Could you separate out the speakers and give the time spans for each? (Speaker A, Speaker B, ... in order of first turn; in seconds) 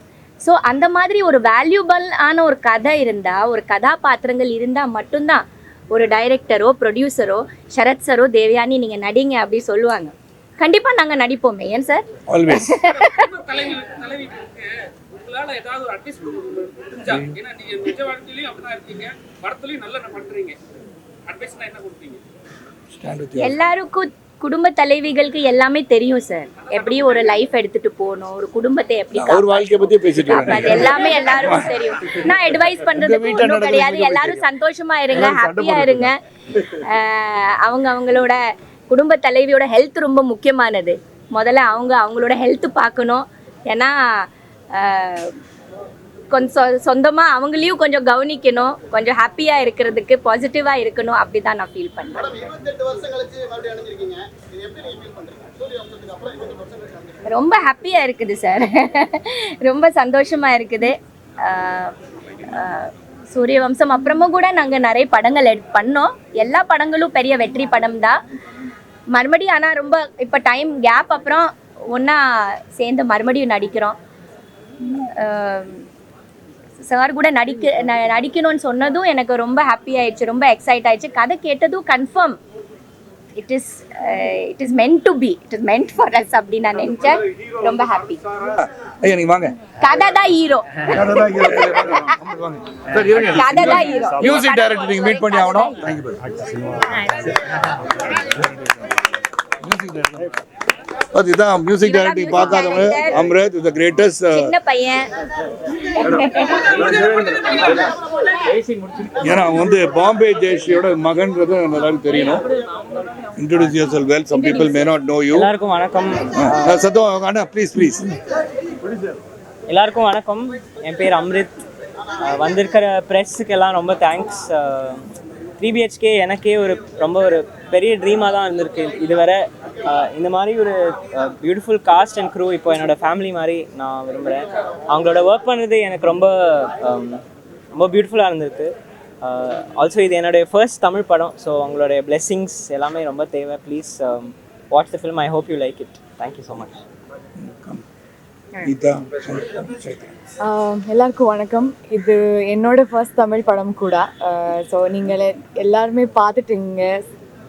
Speaker A: 0.4-12.0, 12.6-13.1, 23.4-36.2, 36.8-38.4, 38.9-45.4, 46.3-52.5, 57.3-62.0, 62.5-68.2, 69.1-74.0, 75.2-75.8, 76.8-82.4, 83.4-88.2, 89.8-92.1, 93.2-95.8, 101.8-103.2, 104.3-105.1, 106.0-106.8
Speaker B: 12.3-12.8, 22.9-23.6, 29.1-32.3, 32.9-34.4, 35.1-36.1, 88.4-89.6, 90.9-97.1, 98.1-98.8, 99.6-100.4, 101.1-104.5, 106.0-107.2, 109.2-112.5, 113.4-115.5, 116.4-118.1, 147.4-147.8, 148.6-150.1
Speaker C: 12.9-20.6, 21.3-22.2, 26.7-27.3
Speaker D: 115.3-116.8, 119.7-121.7, 122.2-125.0, 125.6-137.2, 137.7-146.8
Speaker E: 150.4-157.0